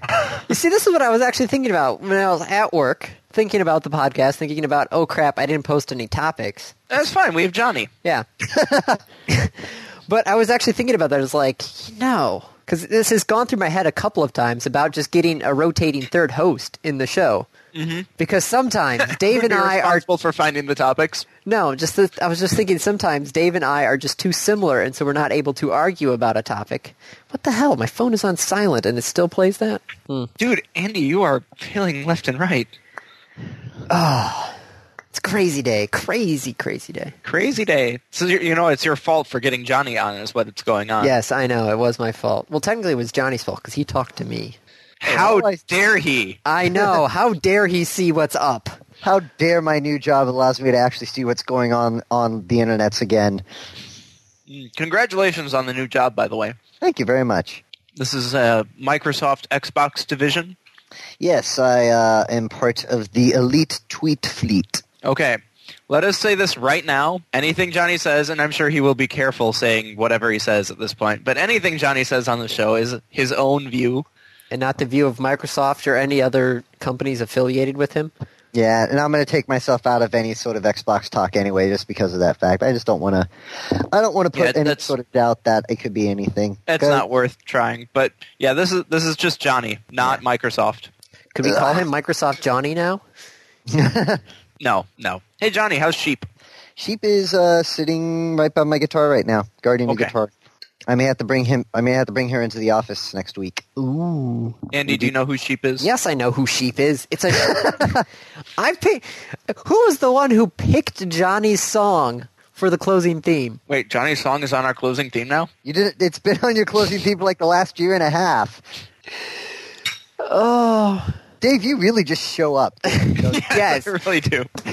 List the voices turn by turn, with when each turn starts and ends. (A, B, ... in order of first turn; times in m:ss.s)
0:00.5-0:06.7 A
0:06.9-0:07.9 B
0:08.5-0:09.0 C
0:09.3-0:17.5 A
0:17.7-0:18.1 B
0:18.2-0:20.0 A
0:19.0-0:21.2 B
0:21.4-0:30.3 A
0:30.4-0:32.7 B
0:33.9-0:34.6 A
0:35.1-0:37.1 A
0:37.2-0:41.1 B
0:41.0-0:44.6 A
0:45.0-0:46.4 B
0:45.1-0:45.6 C
0:46.4-0:48.7 A
0:49.0-0:53.4 C
0:54.5-0:56.6 B
0:56.8-0:57.6 C
0:58.0-1:00.6 B
1:01.2-1:04.8 C
1:05.0-1:14.0 B
1:14.5-1:18.1 A
1:18.5-1:27.0 C
1:24.3-1:24.9 B
1:26.7-1:30.9 B
1:31.3-1:33.0 A
1:31.4-1:31.8 C
1:33.7-1:34.2 C
1:34.6-1:36.3 B
1:36.8-1:40.3 C
1:39.9-1:40.1 B
1:40.9-1:43.6 C
1:43.8-1:44.6 A
1:44.7-1:45.9 B
1:45.8-1:48.0 A
1:47.4-1:48.0 C
1:48.6-1:53.6 A
1:53.7-1:55.5 B
1:55.6-1:58.6 C
2:00.2-2:01.1 A
2:01.4-2:03.5 C
2:03.0-2:03.9 A
2:03.3-2:04.5 B